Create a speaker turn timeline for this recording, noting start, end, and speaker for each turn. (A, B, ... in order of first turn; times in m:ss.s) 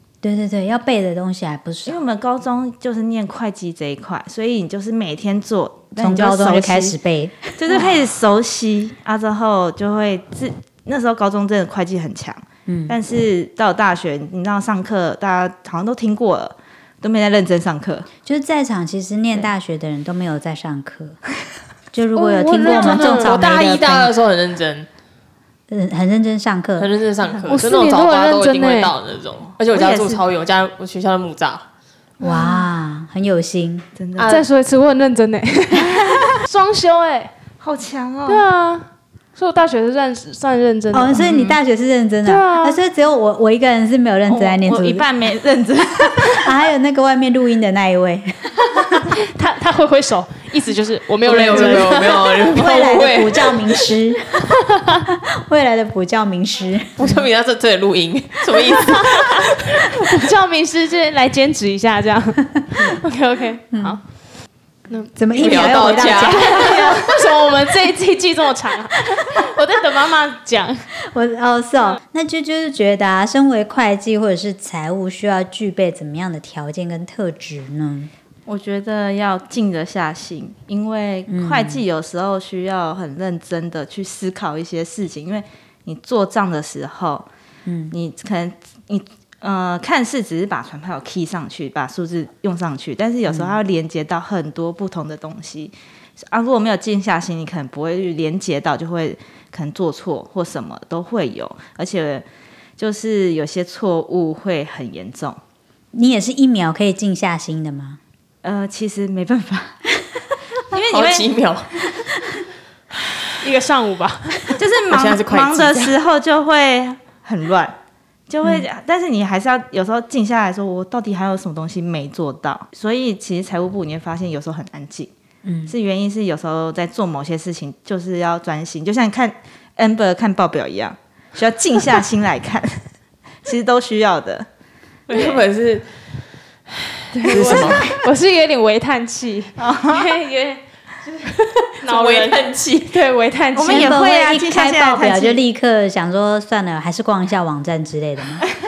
0:00.2-0:02.0 A
0:01.9-0:07.0 B
0:05.9-0:07.7 A
0:07.6-0:18.1 B
0:12.7-0:13.0 A
0:18.2-0:21.2 A
0:21.9-0:24.1 A
0:22.2-0:24.9 C
0:22.6-0:23.2 D
0:25.7-0:26.9 A
0:26.8-0:31.6 C
0:27.5-0:28.9 D
0:29.7-0:30.2 B
0:32.2-0:33.9 A
0:32.2-0:32.7 D
0:34.0-0:34.3 B
0:34.2-0:34.5 C
0:34.2-0:37.3 D
0:35.8-0:36.3 B
0:37.6-0:38.4 B
0:38.2-0:41.5 D
0:40.9-0:45.0 A
0:42.2-0:42.8 D
0:44.3-0:46.4 B
0:46.1-0:49.1 A
0:49.0-0:52.5 D
0:51.2-0:53.7 C
0:51.3-0:54.5 A
0:55.1-0:57.2 A
0:57.0-0:59.6 C
0:58.8-1:04.0 D
1:04.9-1:10.9 D
1:05.2-1:06.8 A
1:05.4-1:07.0 C
1:11.1-1:18.1 A
1:18.5-1:27.3 B
1:21.3-1:21.8 A
1:27.7-1:27.9 A
1:27.9-1:42.2 B
1:42.8-1:45.4 B
1:45.9-1:48.0 A
1:48.4-1:49.8 B
1:50.7-1:51.3 B
1:50.9-1:51.9 C
1:53.4-1:54.6 D
1:54.6-1:57.8 B
1:54.9-1:56.0 C
1:58.3-2:05.1 B
2:05.4-2:05.7 A
2:05.7-2:12.8 B
2:13.4-2:14.5 B
2:15.1-2:15.8 C
2:15.1-2:15.4 D
2:17.1-2:24.0 D
2:17.2-2:17.9 C
2:17.3-2:17.9 B
2:19.6-2:20.1 B
2:21.4-2:23.0 C
2:23.5-2:25.4 B
2:23.6-2:28.5 A